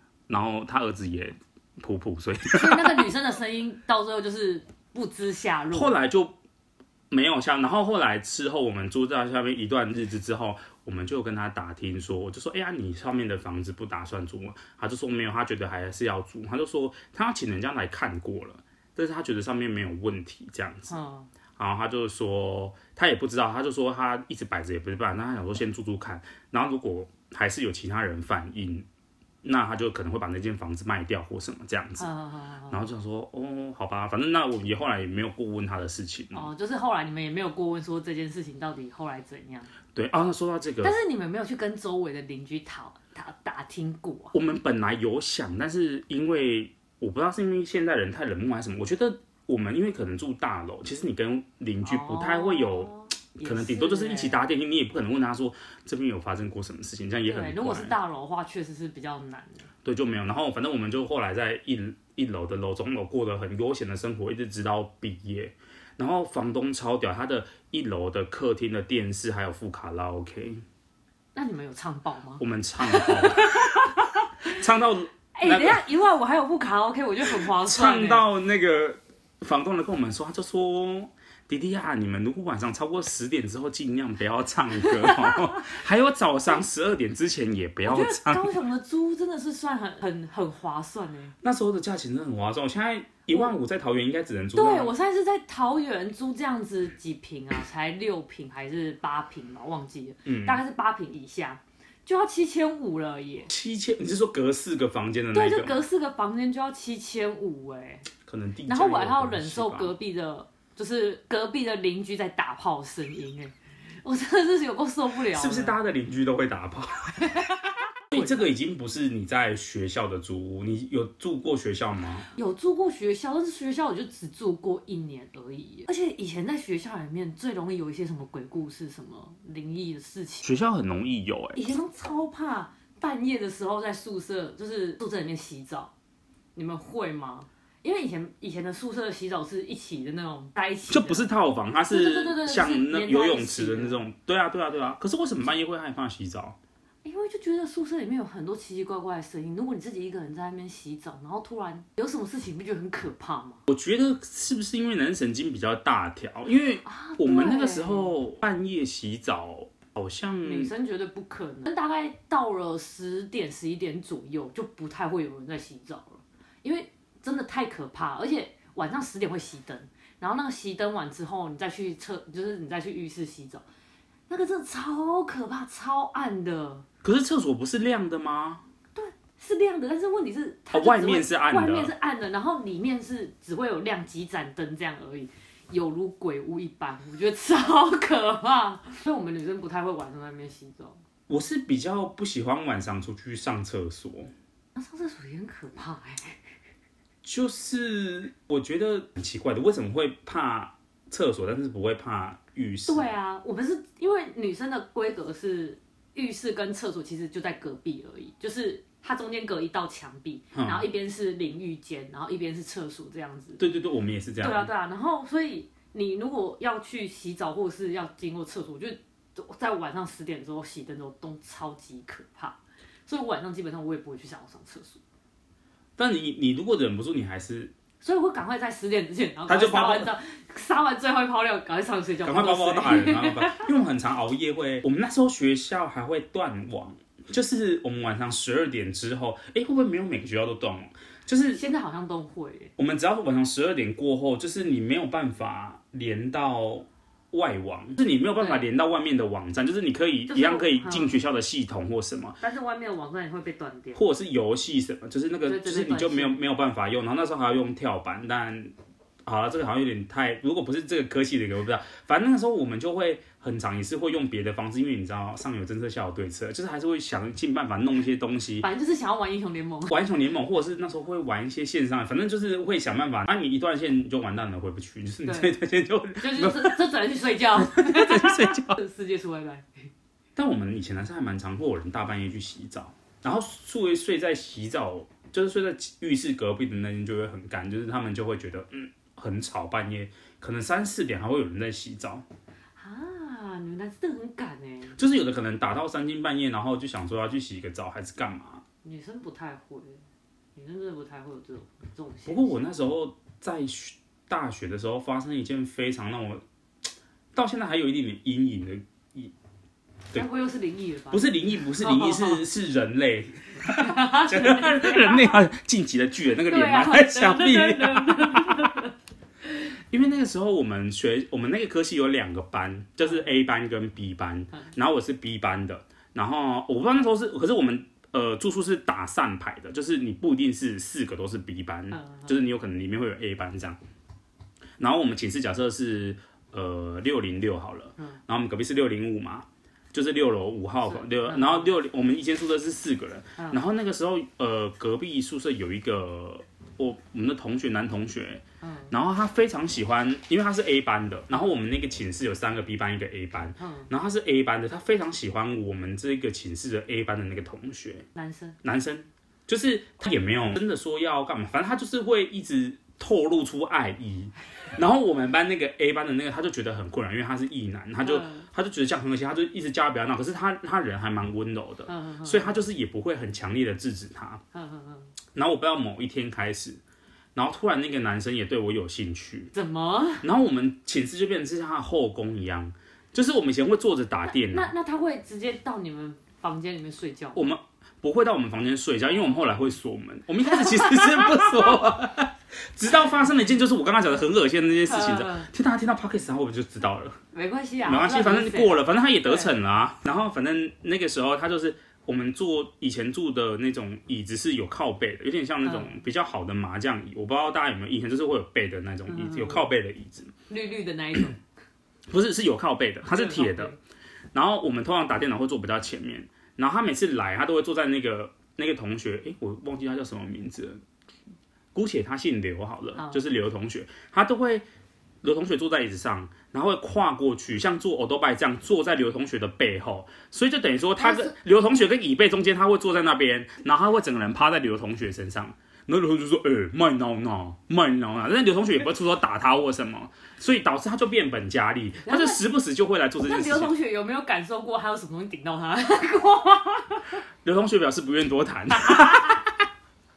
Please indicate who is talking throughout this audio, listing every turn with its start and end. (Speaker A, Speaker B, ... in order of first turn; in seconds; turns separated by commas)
Speaker A: 0.3-3.1, Speaker B: 2.5-5.9, Speaker A: 5.7-6.3, Speaker A: 7.1-20.9, Speaker B: 20.9-21.3, Speaker A: 21.6-28.9, Speaker A: 29.4-32.1, Speaker B: 32.0-32.8, Speaker A: 32.7-36.5, Speaker B: 36.3-39.7, Speaker A: 39.9-40.9, Speaker B: 40.8-44.3, Speaker A: 44.3-52.9, Speaker B: 51.8-54.4, Speaker A: 53.4-57.9, Speaker B: 57.3-59.7, Speaker A: 59.8-70.6, Speaker B: 71.3-74.2, Speaker A: 72.4-73.9, Speaker A: 74.4-75.8, Speaker B: 75.3-78.2, Speaker A: 77.3-88.5, Speaker B: 84.8-85.7, Speaker B: 87.8-91.3, Speaker A: 91.4-94.9, Speaker B: 94.5-103.5, Speaker A: 100.2-100.6, Speaker A: 103.5-105.8, Speaker B: 105.3-108.1, Speaker A: 108.2-109.9, Speaker B: 108.7-115.8, Speaker A: 115.3-117.4, Speaker B: 117.2-117.6, Speaker A: 118.1-122.3, Speaker B: 118.1-118.5, Speaker B: 122.3-130.5, Speaker A: 130.4-131.6, Speaker B: 131.5-135.9, Speaker B: 136.5-141.3, Speaker A: 140.9-146.6, Speaker B: 141.9-144.0, Speaker B: 147.0-153.6, Speaker A: 153.7-160.7, Speaker B: 156.8-158.1, Speaker B: 160.4-173.6, Speaker B: 174.3-176.8, Speaker A: 177.0-178.6, Speaker B: 178.9-191.0, Speaker A: 180.7-181.9, Speaker A: 191.3-194.3, Speaker B: 194.7-196.4, Speaker A: 197.2-203.1, Speaker B: 202.9-213.6, Speaker A: 210.5-210.9, Speaker A: 213.6-214.7, Speaker B: 214.4-225.0, Speaker A: 226.0-227.7, Speaker B: 228.0-233.7, Speaker A: 229.5-230.1, Speaker A: 232.2-241.6, Speaker B: 241.5-242.7, Speaker A: 242.8-252.4, Speaker B: 248.4-248.6, Speaker B: 250.3-251.2, Speaker B: 252.4-254.0, Speaker A: 253.9-258.7, Speaker B: 255.4-256.4, Speaker A: 259.2-268.7, Speaker B: 268.6-270.0, Speaker A: 269.9-276.8, Speaker B: 275.2-275.5, Speaker B: 276.2-279.8, Speaker A: 277.6-278.8, Speaker A: 280.4-292.2, Speaker B: 292.8-294.9, Speaker A: 294.9-298.6, Speaker B: 298.8-300.0, Speaker B: 300.5-302.6, Speaker A: 302.3-306.4, Speaker A: 307.3-309.3, Speaker B: 310.1-312.4, Speaker A: 311.1-318.8, Speaker B: 313.7-315.4, Speaker B: 316.5-318.9, Speaker A: 319.9-333.8, Speaker B: 331.9-332.4, Speaker A: 334.8-358.1, Speaker B: 340.8-341.7, Speaker B: 348.6-348.9, Speaker B: 353.6-353.9, Speaker B: 358.1-358.6, Speaker A: 358.6-374.4, Speaker B: 368.0-368.5, Speaker B: 371.9-372.6, Speaker B: 374.5-375.1, Speaker A: 375.3-376.8, Speaker A: 377.3-379.5, Speaker B: 379.5-380.2, Speaker A: 380.2-384.7, Speaker B: 384.3-387.4, Speaker A: 387.3-397.2, Speaker B: 390.4-391.5, Speaker B: 394.9-395.5, Speaker B: 397.3-399.5, Speaker A: 397.8-410.3, Speaker B: 405.6-405.9, Speaker B: 409.1-409.7, Speaker B: 410.5-411.4, Speaker A: 412.1-413.8, Speaker B: 413.0-413.8, Speaker A: 414.3-420.8, Speaker A: 421.7-424.6, Speaker B: 422.9-423.2, Speaker A: 425.2-443.7, Speaker B: 431.0-431.3, Speaker B: 442.1-442.4, Speaker B: 443.2-447.2, Speaker A: 447.4-449.5, Speaker B: 448.7-449.4